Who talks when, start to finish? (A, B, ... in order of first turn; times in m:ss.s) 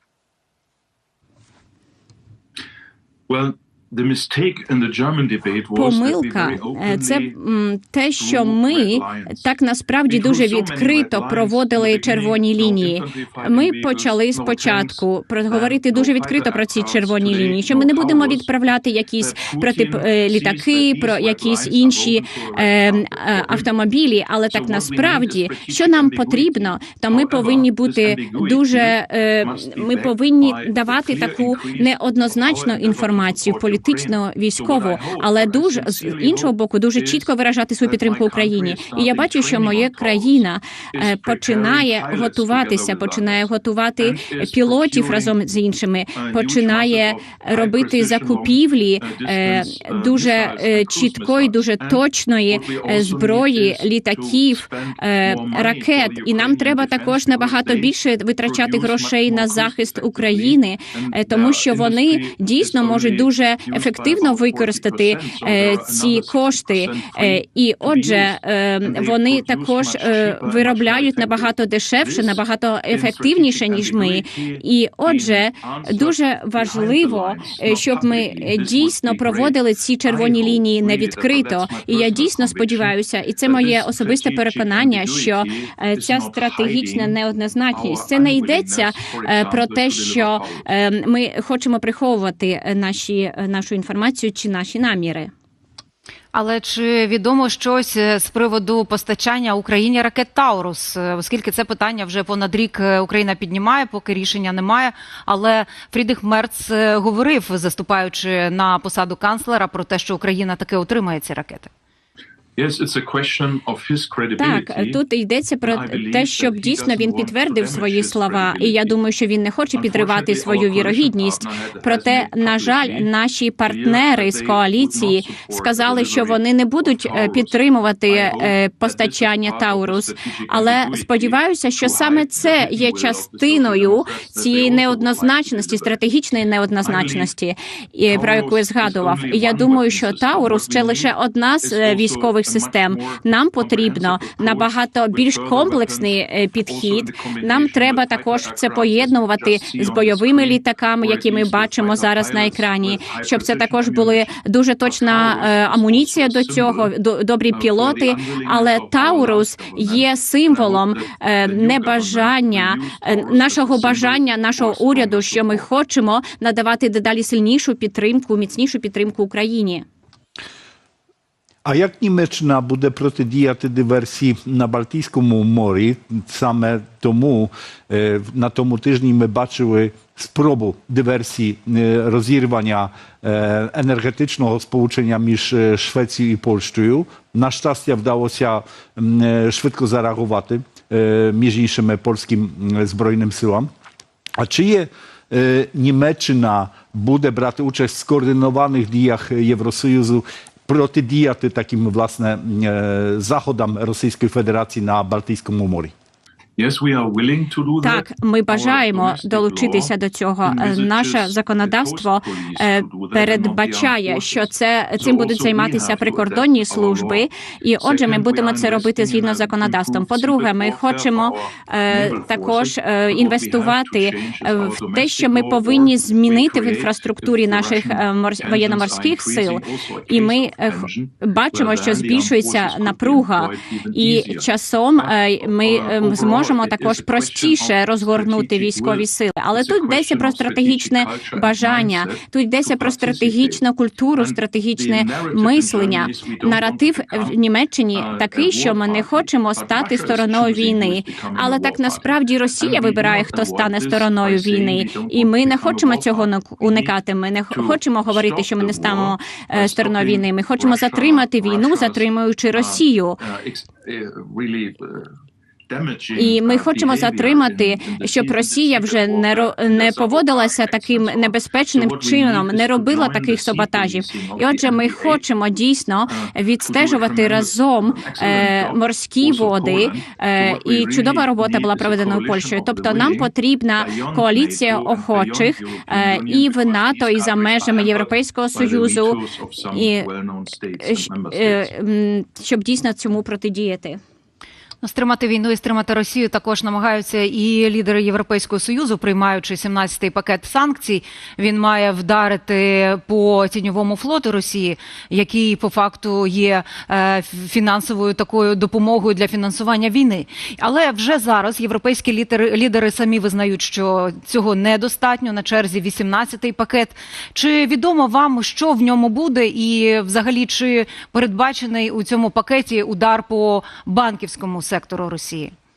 0:03.3-0:07.4 A
0:05.8-1:35.3 B
0:08.2-0:09.5 A
0:10.1-0:18.5 A
0:19.2-0:23.7 A
0:24.5-0:37.3 A
0:37.8-0:40.4 A
0:40.9-0:43.5 A
0:44.0-0:45.4 A
0:46.2-1:27.2 A
1:27.7-1:30.7 A
1:36.3-1:51.7 C
1:52.6-1:55.0 A
1:54.4-2:49.8 B
1:55.6-1:59.0 A
1:59.7-2:03.1 A
2:03.7-2:16.0 A
2:16.8-2:17.3 A
2:18.1-2:36.9 A
2:37.5-2:45.7 A
2:51.6-3:13.7 D
3:14.4-3:25.9 D
3:26.6-3:29.9 A
3:27.8-4:23.2 B
3:30.4-3:34.5 A
3:35.0-3:37.3 A
3:37.8-4:03.6 A
4:04.2-4:07.4 A
4:07.9-4:17.0 A
4:17.5-4:25.1 A
4:25.7-4:35.2 A
4:26.1-4:50.1 B
4:36.1-4:51.7 A
4:50.8-4:54.0 B
4:54.8-5:25.5 C